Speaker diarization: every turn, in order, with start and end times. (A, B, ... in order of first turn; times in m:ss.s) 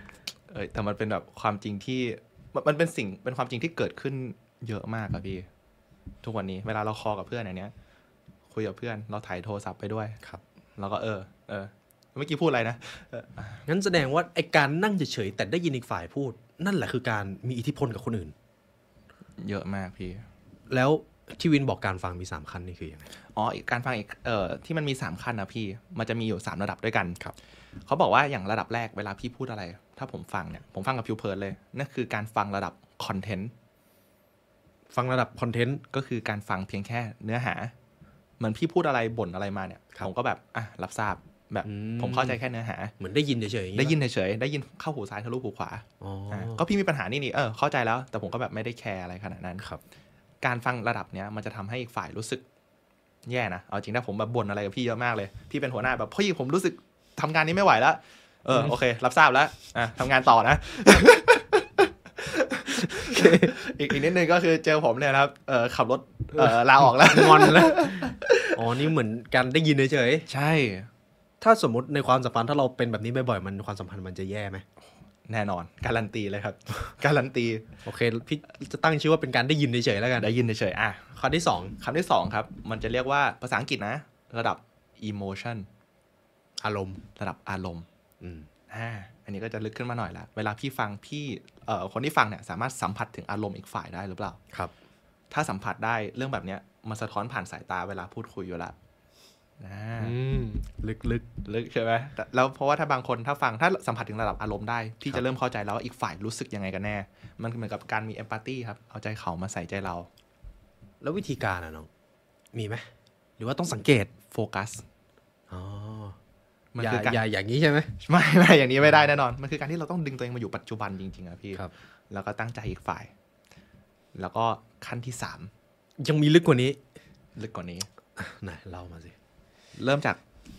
0:00.5-0:05.5 A
0:06.2-0:07.7 A
0:08.5-0:10.2 A
0:10.8-0:13.6 A
0:13.7-0:18.3 B
0:19.4-0:20.2 A
0:20.7-0:23.1 B
0:23.4-0:27.2 A
0:27.9-0:33.5 A
0:34.9-0:35.8 B
0:35.9-0:37.7 A
0:38.4-0:42.9 A
0:41.6-0:42.4 B
0:43.0-0:44.0 B
0:43.8-0:49.7 A
0:46.0-0:46.6 B
0:50.4-0:52.4 A
0:53.3-1:08.5 A
1:02.8-1:03.6 B
1:06.4-1:10.3 B
1:10.3-1:10.9 A
1:11.4-1:14.6 B
1:15.3-1:17.7 A
1:17.8-1:20.3 B
1:20.2-1:21.1 A
1:21.2-1:21.8 B
1:21.8-1:25.7 A
1:26.6-1:27.0 B
1:27.2-1:27.9 A
1:28.2-1:28.5 B
1:28.7-1:34.4 A
1:35.3-1:38.8 A
1:39.6-1:40.2 A
1:40.0-1:41.3 B
1:41.4-1:50.1 A
1:51.0-1:51.9 B
1:52.5-1:52.9 B
1:53.4-1:54.1 B
1:54.3-1:54.8 A
1:55.5-1:56.2 B
1:56.7-1:57.2 A
1:56.8-1:57.9 B
1:58.0-2:03.1 A
2:04.2-2:05.5 A
2:06.0-2:06.8 B
2:07.4-2:07.9 A
2:08.2-2:09.2 B
2:09.8-2:10.2 A